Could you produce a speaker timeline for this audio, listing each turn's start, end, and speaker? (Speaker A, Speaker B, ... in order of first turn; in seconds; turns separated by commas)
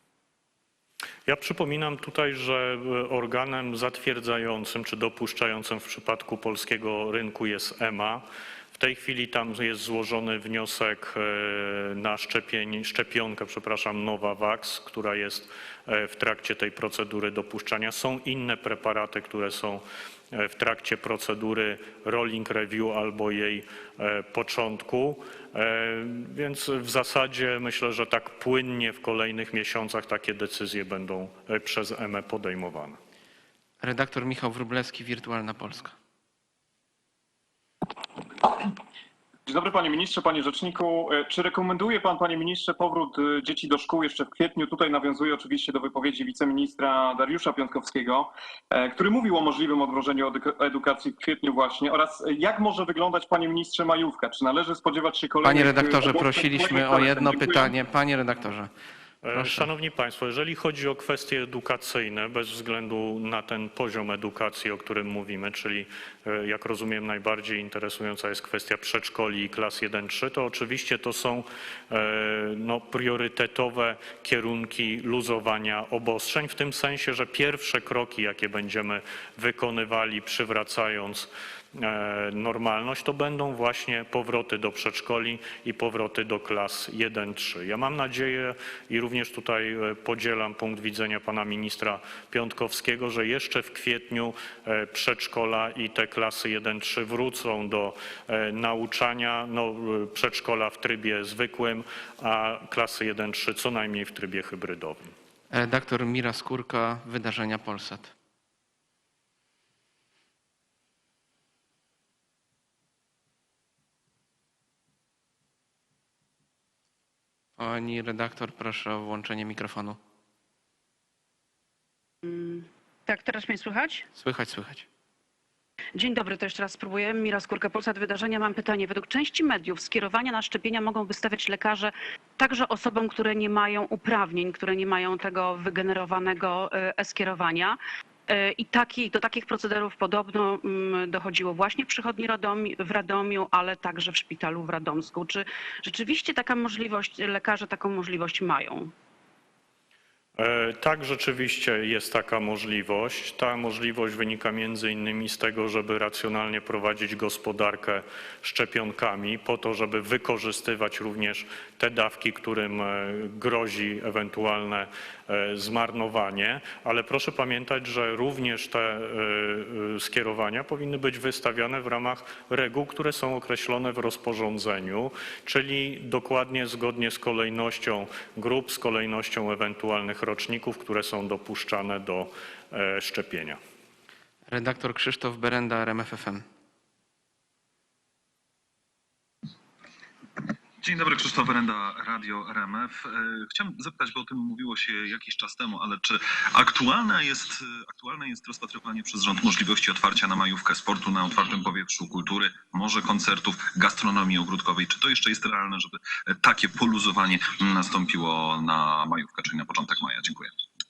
Speaker A: 1.3-33.0, Speaker B: 33.8-36.0, Speaker C: 39.5-57.7, Speaker B: 55.4-58.7, Speaker A: 59.2-105.1, Speaker B: 59.4-59.7, Speaker B: 105.5-108.1, Speaker B: 117.6-120.0, Speaker D: 122.2-124.1, Speaker B: 124.2-124.9, Speaker D: 126.0-148.9, Speaker A: 150.4-183.6, Speaker B: 184.5-186.4, Speaker E: 190.8-210.5